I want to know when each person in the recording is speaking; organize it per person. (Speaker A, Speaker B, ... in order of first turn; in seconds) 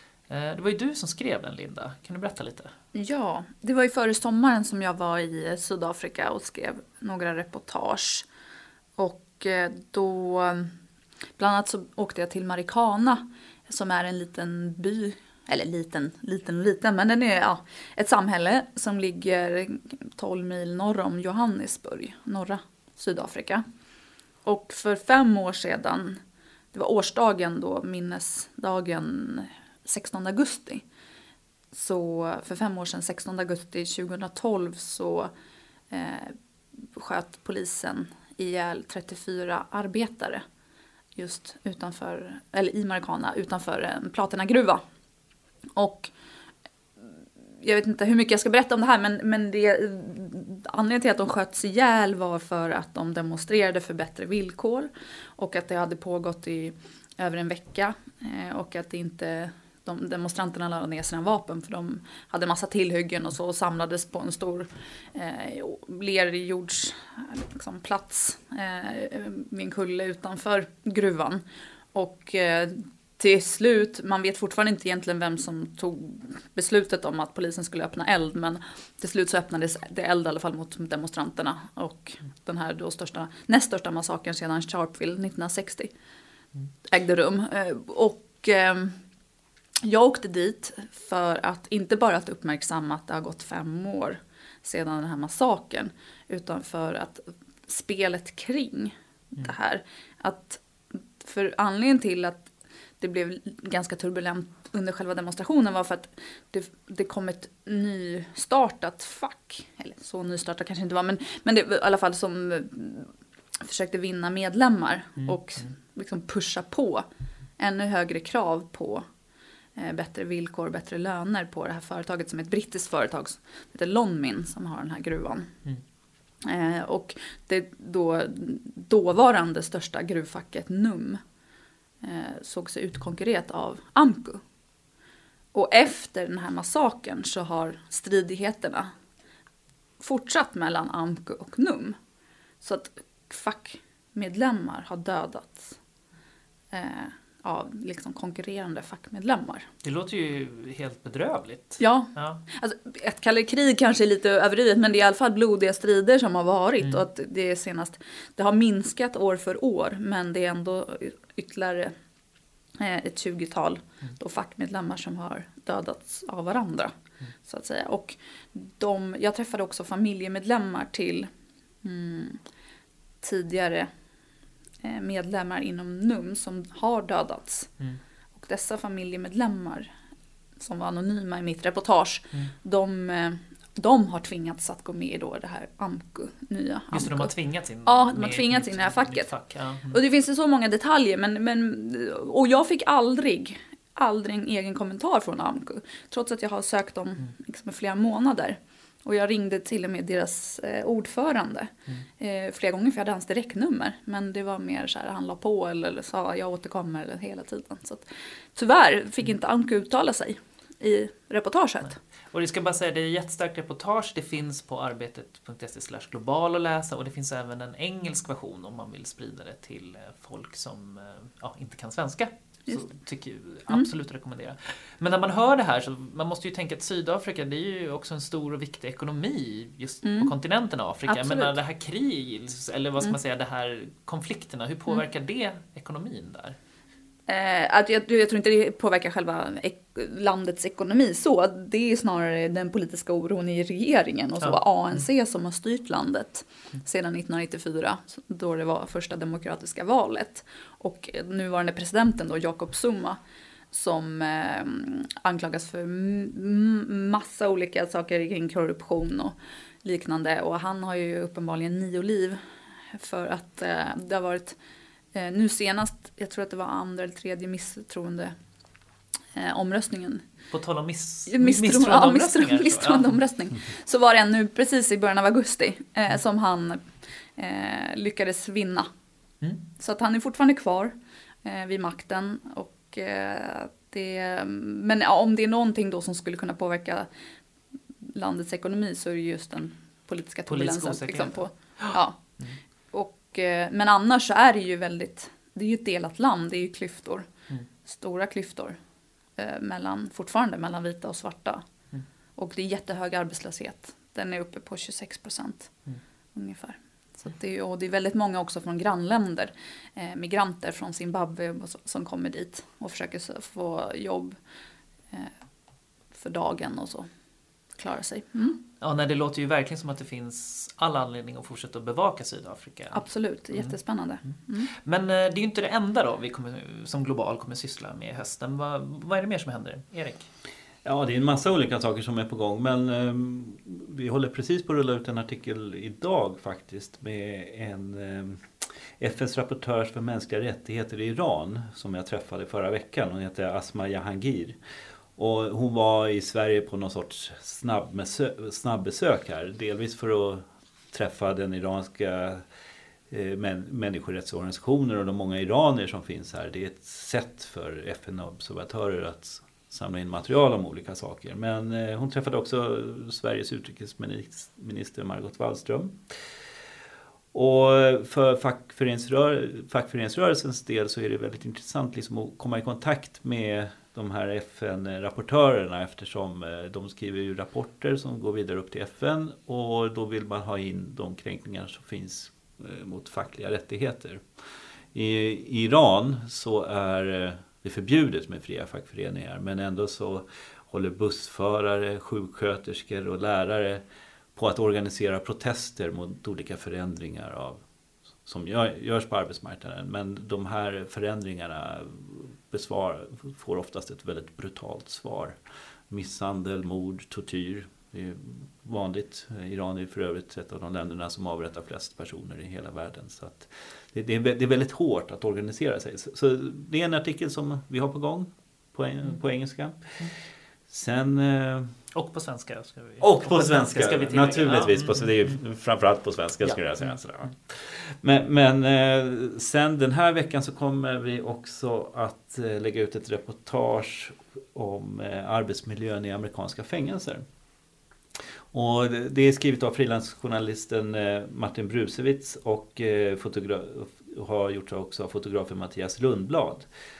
Speaker A: 0.3-2.7, 115.2-115.7, 149.8-152.4, 186.9-190.0, 212.3-236.6, 270.5-273.2, 290.5-292.6, 318.8-323.8, 324.7-330.3, 421.9-425.4
Speaker B: 2.9-8.2, 9.0-10.7, 11.4-23.6, 24.4-26.2, 26.7-30.8, 31.7-35.3, 35.9-40.4, 41.2-44.8, 45.8-46.1, 47.6-71.4, 71.9-85.9, 86.9-89.0, 89.8-102.5, 103.0-117.1, 117.6-119.0, 119.8-125.5, 126.4-131.2, 132.0-134.4, 135.5-138.9, 140.0-142.0, 142.6-145.8, 146.7-149.7, 151.8-161.9, 162.8-166.9, 167.4-171.3, 171.8-172.4, 173.2-173.9, 174.8-177.7, 178.4-179.9, 180.6-187.3, 187.8-189.3, 189.9-212.0, 230.0-230.3, 231.1-231.5, 237.3-253.2, 253.7-262.4, 262.9-264.6, 265.1-268.4, 269.4-270.2, 271.3-278.9, 279.8-287.1, 288.1-292.2, 292.9-297.3, 297.9-298.8, 299.4-301.6, 302.4-305.7, 306.4-314.4, 316.1-317.1, 317.8-318.6, 322.9-324.7
Speaker C: 330.9-338.4, 339.0-344.6, 345.1-352.4, 353.1-366.1, 367.3-384.2, 384.9-393.8, 394.4-397.6, 398.2-405.4, 405.9-420.1, 420.7-421.7, 423.0-437.2, 438.5-446.6